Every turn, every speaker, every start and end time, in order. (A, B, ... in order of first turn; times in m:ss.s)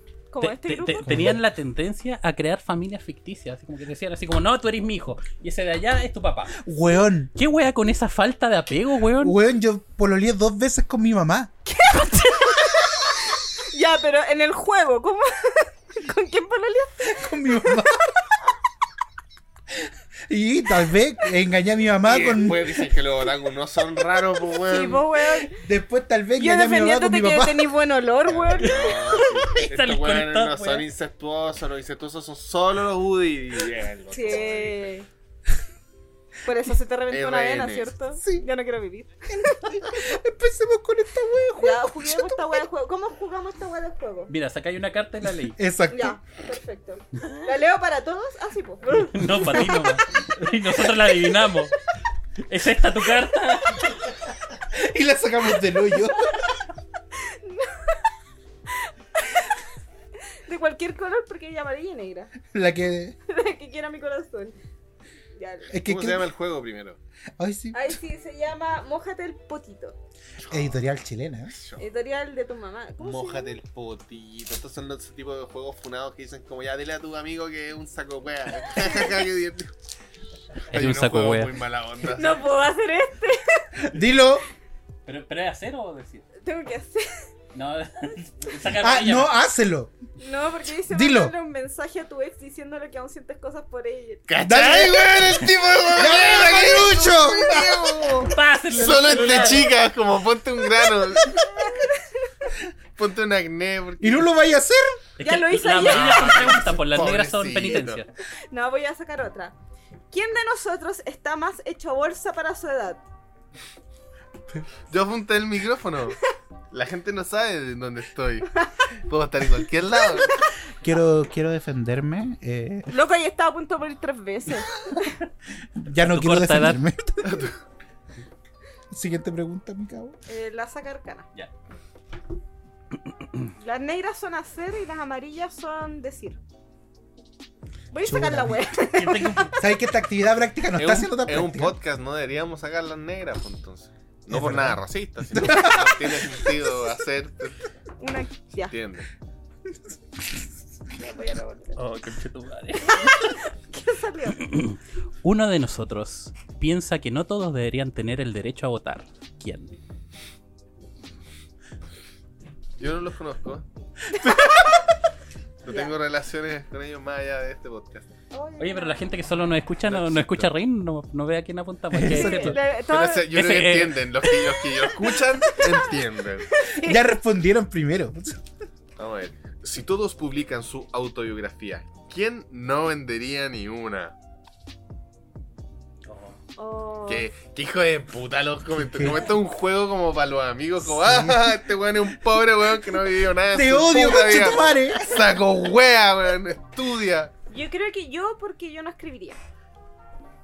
0:00.3-0:01.3 A
0:00.4-0:06.7 B
0:01.0-0:01.4 C
0:06.6-0:07.3 C
0:07.4-0:09.4 B
0:09.2-0:11.5 C
0:11.7-0:12.7 A
0:13.6-0:17.6 A
0:17.1-0:18.0 C
0:20.3-0:22.9 C
0:22.0-0:25.0 D
0:24.7-0:25.6 A
0:25.4-0:27.7 C
0:26.4-0:29.0 A
0:28.3-0:34.9 D
0:29.6-0:30.9 B
0:34.1-0:35.1 A
0:36.4-0:39.6 A
0:37.1-0:37.9 D
0:38.2-0:38.5 C
0:39.3-0:42.3 C
0:41.6-0:44.3 A
0:44.3-0:45.6 B
0:45.4-0:46.2 C
0:45.9-0:50.0 A
0:48.9-0:51.8 B
0:52.5-0:54.1 B
0:54.7-0:56.5 C
0:57.2-0:58.0 A
0:58.8-0:59.6 A
1:00.5-1:02.3 A
1:02.5-1:03.2 C
1:03.3-1:04.6 A
1:05.4-1:05.8 A
1:05.7-1:06.3 C
1:05.8-1:07.0 D
1:07.4-1:08.0 C
1:07.7-1:10.0 A
1:10.4-1:10.8 D
1:10.5-1:11.5 C
1:11.5-1:11.8 D
1:11.8-1:13.6 A
1:13.0-1:19.7 D
1:20.7-1:22.5 D
1:20.7-1:21.6 B
1:22.1-1:23.7 A
1:23.8-1:24.5 C
1:25.1-1:26.3 B
1:26.4-1:27.0 A
1:27.5-1:29.3 B
1:28.8-1:29.9 C
1:30.2-1:34.2 A
1:30.9-1:31.4 C
1:34.3-1:41.5 D
1:34.4-1:38.1 C
1:37.0-1:38.3 A
1:38.2-1:39.7 B
1:41.3-1:42.3 A
1:43.0-1:44.3 D
1:44.0-1:45.0 C
1:45.2-1:48.1 B
1:45.2-1:46.6 A
1:45.8-1:48.0 D
1:48.5-1:49.6 A
1:50.1-1:53.0 A
1:54.9-1:56.2 D
1:56.7-2:00.4 D
2:00.8-2:02.9 C
2:02.9-2:04.8 A
2:05.8-2:07.5 C
2:06.0-2:06.8 B
2:07.2-2:07.6 D
2:08.9-2:10.2 C
2:10.3-2:11.3 A
2:13.6-2:16.4 A
2:17.9-2:19.5 A
2:18.0-2:18.7 C
2:18.8-2:19.6 B
2:19.5-2:21.8 C
2:20.8-2:27.6 D
2:24.3-2:26.5 C
2:28.0-2:28.8 A
2:28.6-2:29.1 D
2:30.9-2:31.8 A
2:31.8-2:32.2 D
2:32.0-2:33.3 B
2:32.8-2:34.6 A
2:34.4-2:39.7 B
2:42.8-2:43.6 D
2:45.6-2:48.1 D
2:45.7-2:45.9 A
2:48.3-2:49.0 A
2:48.6-2:52.7 B
2:49.9-2:50.5 D
2:51.9-2:52.6 C
2:52.1-2:53.3 A
2:52.7-2:56.5 D
2:53.3-2:54.4 B
2:56.5-2:57.1 A
2:56.7-2:58.4 C
2:59.0-3:04.2 D
3:06.0-3:06.4 B
3:06.6-3:07.3 A
3:07.1-3:17.3 D
3:08.8-3:09.3 C
3:10.8-3:11.6 C
3:13.5-3:15.2 C
3:17.5-3:19.4 A